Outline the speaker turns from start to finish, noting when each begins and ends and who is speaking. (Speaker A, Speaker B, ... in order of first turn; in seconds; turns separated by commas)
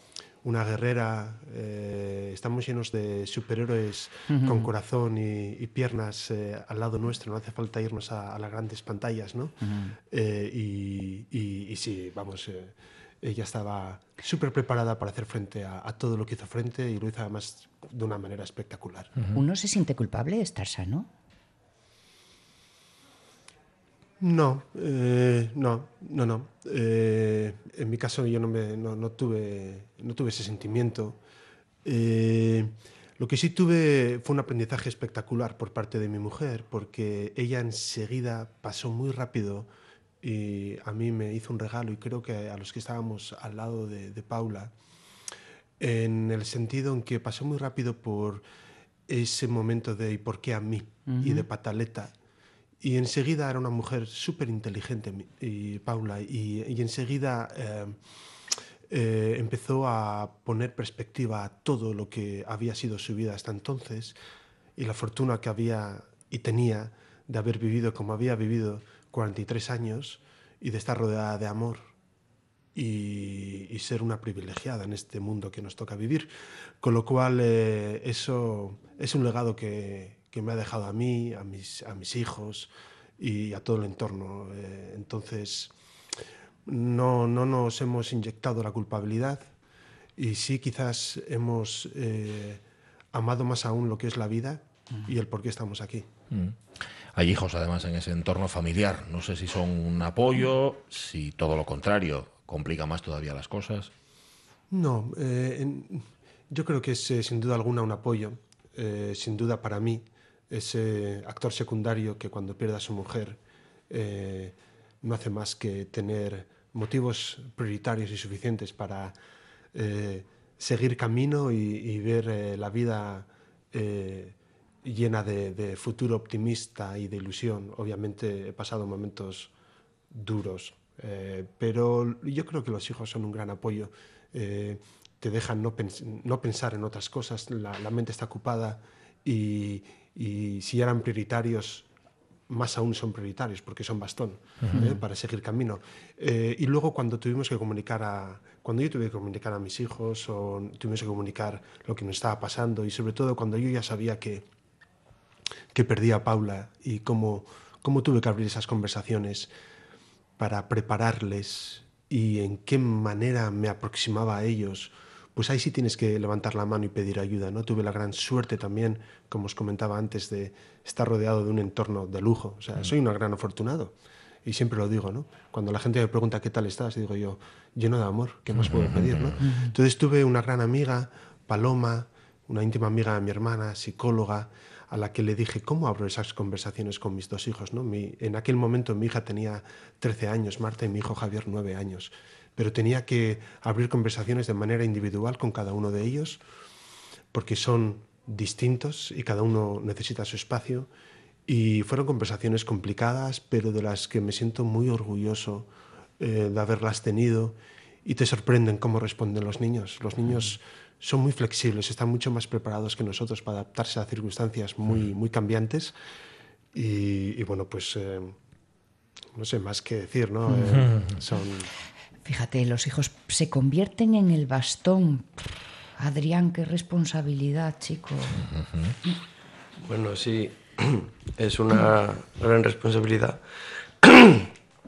Speaker A: 0.4-19.1, Speaker B: 4.3-4.7, Speaker B: 9.6-9.9, Speaker B: 19.3-21.1, Speaker A: 24.2-31.2, Speaker A: 31.8-39.7, Speaker A: 40.2-44.7, Speaker A: 45.8-48.5, Speaker A: 49.1-52.1, Speaker B: 51.1-51.5, Speaker A: 52.8-58.0, Speaker A: 58.9-64.2, Speaker A: 64.8-71.9, Speaker A: 72.7-85.7, Speaker A: 86.7-89.5, Speaker A: 90.2-92.6, Speaker A: 93.1-96.1, Speaker C: 96.3-96.6, Speaker C: 97.2-103.9, Speaker A: 104.7-113.4, Speaker A: 113.9-119.2, Speaker A: 119.7-129.5, Speaker A: 130.1-141.9, Speaker A: 142.5-154.5, Speaker A: 155.7-159.5, Speaker A: 160.4-173.9, Speaker A: 174.4-196.4, Speaker C: 178.6-179.3, Speaker B: 179.4-179.7, Speaker A: 197.3-200.9, Speaker A: 201.5-215.9, Speaker A: 216.7-218.4, Speaker A: 219.3-221.7, Speaker B: 222.3-225.5, Speaker B: 226.0-228.5, Speaker D: 229.8-233.4, Speaker D: 234.0-234.5